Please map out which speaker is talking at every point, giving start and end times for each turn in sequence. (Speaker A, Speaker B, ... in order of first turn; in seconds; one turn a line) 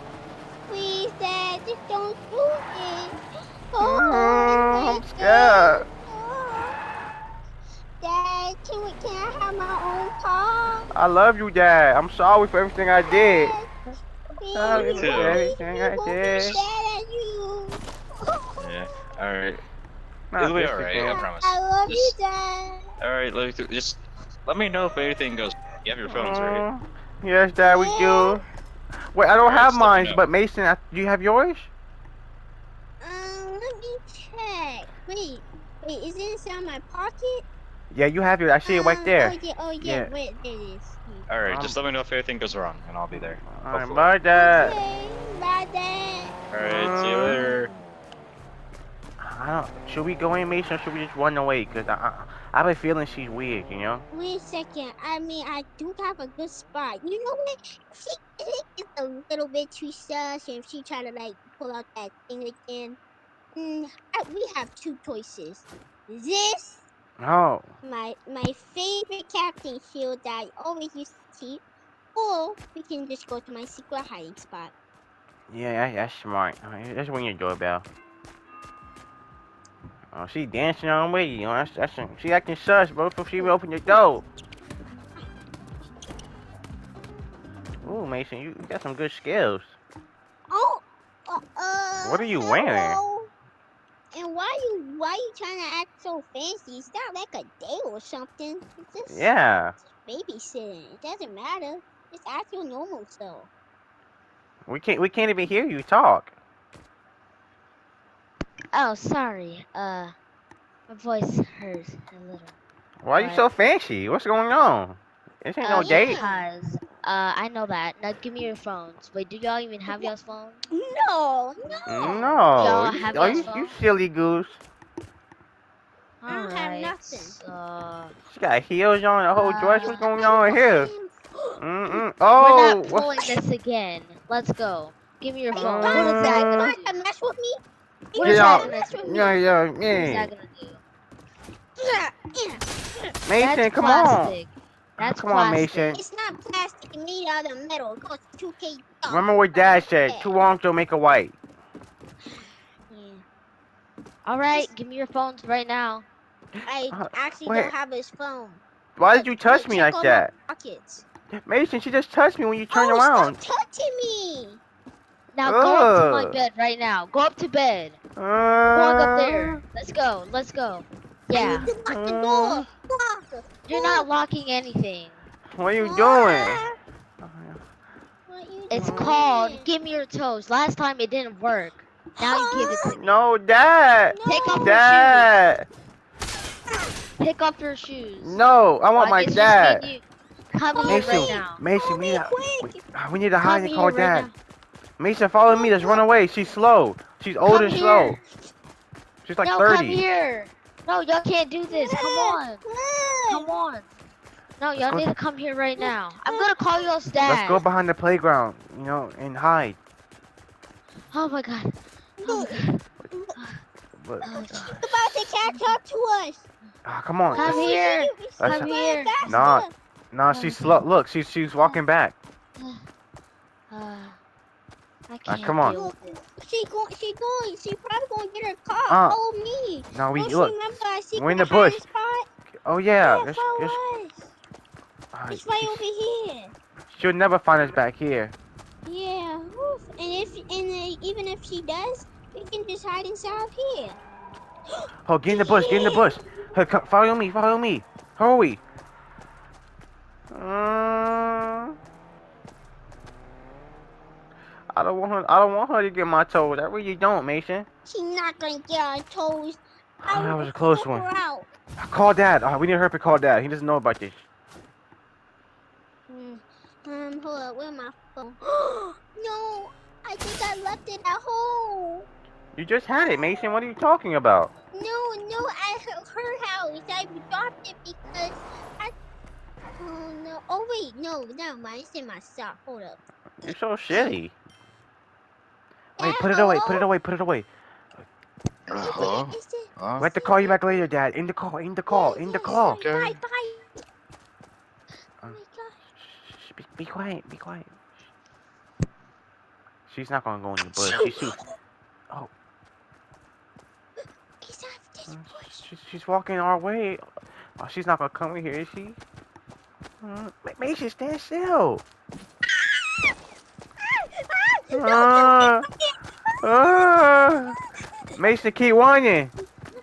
Speaker A: 0.7-3.2
Speaker A: 3.7-6.8
Speaker B: 3.8-5.9
Speaker A: 8.0-10.9
Speaker B: 10.9-13.6
Speaker A: 13.1-13.7
Speaker A: 14.4-19.1
Speaker B: 14.5-16.6
Speaker C: 14.7-15.4
Speaker C: 16.2-16.6
Speaker C: 18.6-19.6
Speaker B: 20.3-21.2
Speaker C: 20.4-22.1
Speaker A: 21.0-22.9
Speaker C: 23.0-26.7
Speaker B: 26.1-28.4
Speaker A: 27.6-28.4
Speaker B: 29.1-31.7
Speaker C: 29.4-30.2
Speaker A: 33.0-37.5
Speaker B: 37.9-40.1
Speaker A: 38.6-41.3
Speaker C: 41.3-44.2
Speaker B: 41.5-41.8
Speaker B: 43.1-44.8
Speaker A: 44.3-46.4
Speaker C: 46.5-47.7
Speaker B: 46.6-47.5
Speaker B: 49.2-54.0
Speaker A: 54.1-63.0
Speaker A: 63.6-66.8
Speaker B: 67.2-67.7
Speaker A: 67.8-71.6
Speaker A: 72.2-74.7
Speaker B: 75.5-77.8
Speaker B: 80.1-84.2
Speaker A: 83.4-84.0
Speaker B: 87.8-89.8
Speaker A: 90.5-93.3
Speaker B: 92.0-93.0
Speaker A: 94.1-99.3
Speaker B: 99.1-99.8
Speaker A: 100.0-103.5
Speaker B: 104.7-106.3
Speaker D: 108.7-110.2
Speaker D: 110.9-112.5
Speaker B: 113.0-116.2
Speaker D: 113.1-113.5
Speaker D: 115.6-120.6
Speaker A: 115.8-116.4
Speaker A: 120.7-123.5
Speaker D: 121.7-123.8
Speaker B: 121.9-124.6
Speaker D: 126.2-128.1
Speaker A: 126.3-127.4
Speaker B: 128.3-130.9
Speaker D: 129.4-130.0
Speaker A: 129.8-132.0
Speaker B: 131.6-133.1
Speaker D: 132.3-137.0
Speaker A: 135.5-137.6
Speaker B: 135.6-136.7
Speaker A: 138.1-139.4
Speaker D: 138.2-139.3
Speaker B: 138.2-140.3
Speaker D: 139.9-140.8
Speaker A: 141.8-143.1
Speaker B: 143.3-144.4
Speaker D: 143.4-146.0
Speaker B: 145.0-146.0
Speaker A: 145.9-150.3
Speaker B: 149.1-151.3
Speaker D: 152.9-153.2
Speaker D: 154.2-156.1
Speaker A: 156.7-161.1
Speaker B: 156.9-157.7
Speaker B: 159.0-160.3
Speaker B: 161.5-163.4
Speaker A: 162.7-164.6
Speaker D: 165.3-168.0
Speaker B: 165.4-166.4
Speaker B: 168.2-169.6
Speaker D: 168.7-171.7
Speaker A: 171.3-174.1
Speaker B: 171.9-172.7
Speaker D: 173.7-175.2
Speaker B: 175.6-176.6
Speaker A: 175.8-176.8
Speaker B: 177.2-177.6
Speaker A: 178.3-179.7
Speaker D: 178.7-183.2
Speaker B: 178.7-179.2
Speaker A: 182.3-182.9
Speaker B: 183.0-185.7
Speaker A: 184.1-185.1
Speaker D: 184.2-185.3
Speaker D: 187.2-188.4
Speaker B: 188.2-189.9
Speaker D: 189.0-191.6
Speaker A: 190.7-192.8
Speaker B: 190.9-194.3
Speaker D: 193.4-194.3
Speaker B: 195.0-198.2
Speaker A: 195.5-196.0
Speaker D: 197.5-198.1
Speaker B: 199.2-200.0
Speaker D: 199.4-202.6
Speaker A: 201.7-203.5
Speaker D: 203.3-203.9
Speaker D: 204.6-207.6
Speaker A: 205.8-206.9
Speaker B: 207.2-209.8
Speaker D: 211.1-212.8
Speaker A: 212.2-213.3
Speaker D: 213.4-213.6
Speaker B: 214.0-215.2
Speaker D: 214.2-214.8
Speaker A: 214.7-216.4
Speaker D: 215.4-215.7
Speaker B: 216.8-217.7
Speaker A: 217.3-219.7
Speaker D: 217.3-219.4
Speaker B: 218.4-218.7
Speaker B: 219.2-222.1
Speaker D: 220.3-220.8
Speaker D: 223.7-224.2
Speaker D: 225.1-225.9
Speaker B: 225.3-225.8
Speaker A: 225.7-232.3
Speaker B: 228.9-229.2
Speaker B: 229.9-230.6
Speaker B: 231.2-231.8
Speaker B: 232.7-233.8
Speaker A: 233.0-234.3
Speaker B: 235.1-235.8
Speaker A: 235.3-236.5
Speaker B: 236.9-238.3
Speaker A: 238.8-244.0
Speaker A: 244.7-246.1
Speaker B: 245.1-248.6
Speaker B: 250.3-251.8
Speaker B: 254.7-257.7
Speaker A: 257.9-261.5
Speaker B: 260.0-261.1
Speaker B: 261.8-264.2
Speaker A: 266.1-272.1
Speaker B: 272.6-274.5
Speaker A: 274.7-278.9
Speaker A: 279.8-284.1
Speaker B: 283.4-284.3
Speaker A: 286.0-286.9
Speaker B: 286.0-288.1
Speaker C: 288.7-290.1
Speaker A: 288.8-290.6
Speaker B: 290.0-292.8
Speaker A: 291.9-293.8
Speaker C: 292.5-293.2
Speaker A: 295.3-295.9
Speaker B: 296.0-297.8
Speaker B: 299.9-301.4
Speaker A: 300.9-301.5
Speaker A: 304.4-305.6
Speaker B: 305.1-307.0
Speaker B: 307.6-309.0
Speaker B: 310.0-311.8
Speaker A: 312.5-313.1
Speaker A: 313.8-315.9
Speaker B: 314.7-315.7
Speaker B: 316.4-317.6
Speaker B: 318.2-319.3